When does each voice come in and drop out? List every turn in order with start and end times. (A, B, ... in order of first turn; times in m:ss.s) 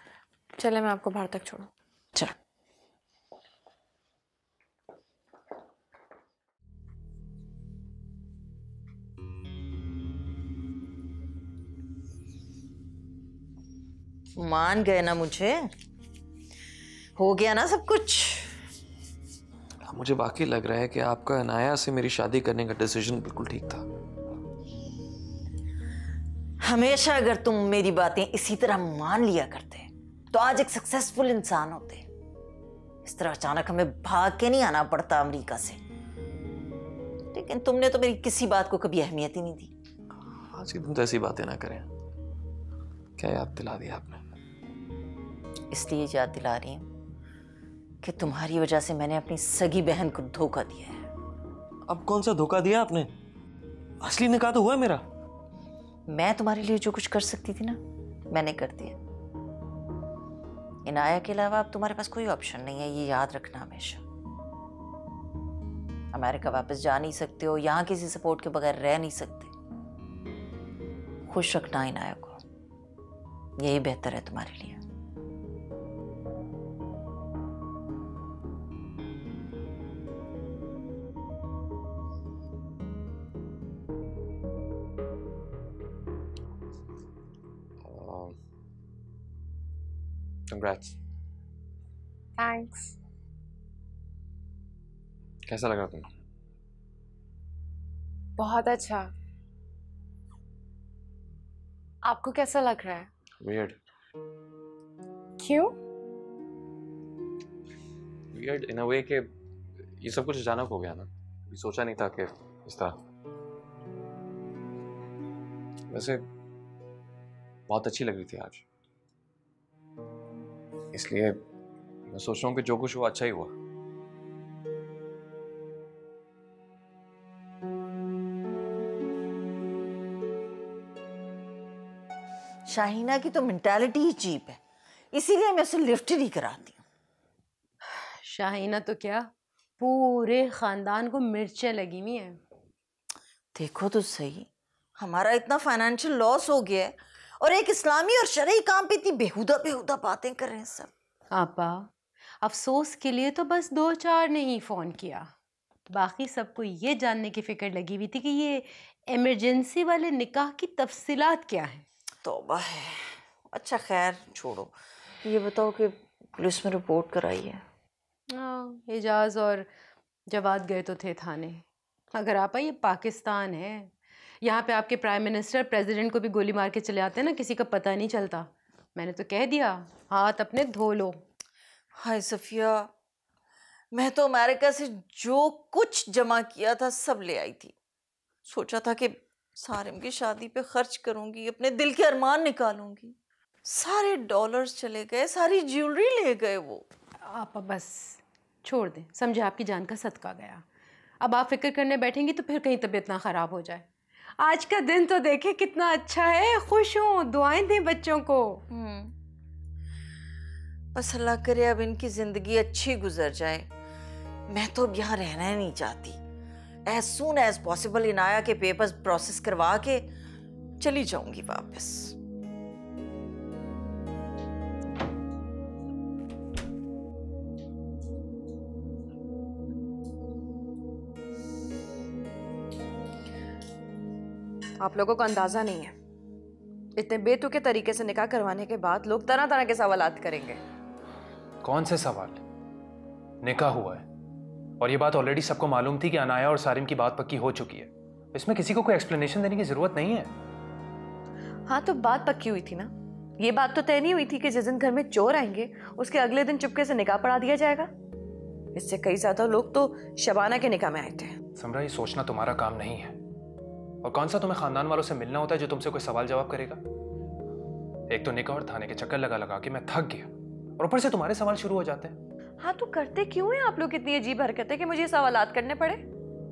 0:00.6-0:01.7 A
0:14.4-0:15.7 B
0:17.2-0:18.6 B
0:19.8-0:23.8 C
0:26.6-0:32.1 B
0:33.0-0:35.8 B
0:37.3-0:39.7 B
0:40.2-0:41.9 C
0:43.2-0:44.2 C
0:45.7-0:46.9 B
0:48.0-0:51.1 B
0:51.9-0:53.1 C
0:54.0-0:55.0 C
0:56.1-0:59.0 B
1:00.8-1:04.0 B
1:06.1-1:09.5 B
1:11.3-1:12.4 B
1:13.6-1:14.8 B
1:27.8-1:28.4 C
1:30.5-1:30.9 C
1:32.4-1:32.9 D
1:35.4-1:36.1 C
1:38.4-1:39.0 D
1:42.0-1:43.1 D
1:43.4-1:43.8 C
1:45.4-1:45.8 D
1:48.3-1:49.3 C
1:50.0-1:53.0 C
1:55.9-1:56.2 C
1:57.7-1:58.6 C
2:00.9-2:01.4 C
2:02.1-2:03.5 C
2:12.6-2:14.6 B
2:15.1-2:16.8 B
2:18.0-2:22.4 E
2:23.5-2:30.9 B
2:31.3-2:31.9 E
2:32.4-2:35.3 E
2:35.9-2:41.8 E
2:42.2-2:47.6 B
2:48.3-2:49.7 E
2:50.3-2:51.6 E
2:52.1-2:53.9 E
2:54.4-3:01.2 E
3:01.9-3:02.9 B
3:03.9-3:07.7 B
3:08.4-3:16.8 B
3:17.2-3:20.6 E
3:21.2-3:23.9 E
3:24.4-3:28.6 E
3:28.7-3:29.1 B
3:30.9-3:33.7 B
3:34.5-3:36.2 B
3:36.8-3:40.1 B
3:40.8-3:42.2 B
3:54.8-3:55.9 A
3:57.0-4:00.6 A
4:01.6-4:02.4 F
4:03.4-4:04.0 F
4:04.8-4:10.3 F
4:11.7-4:17.9 A
4:18.7-4:21.4 A
4:21.6-4:23.2 F
4:24.0-4:26.8 F
4:28.1-4:32.2 F
4:32.6-4:36.0 A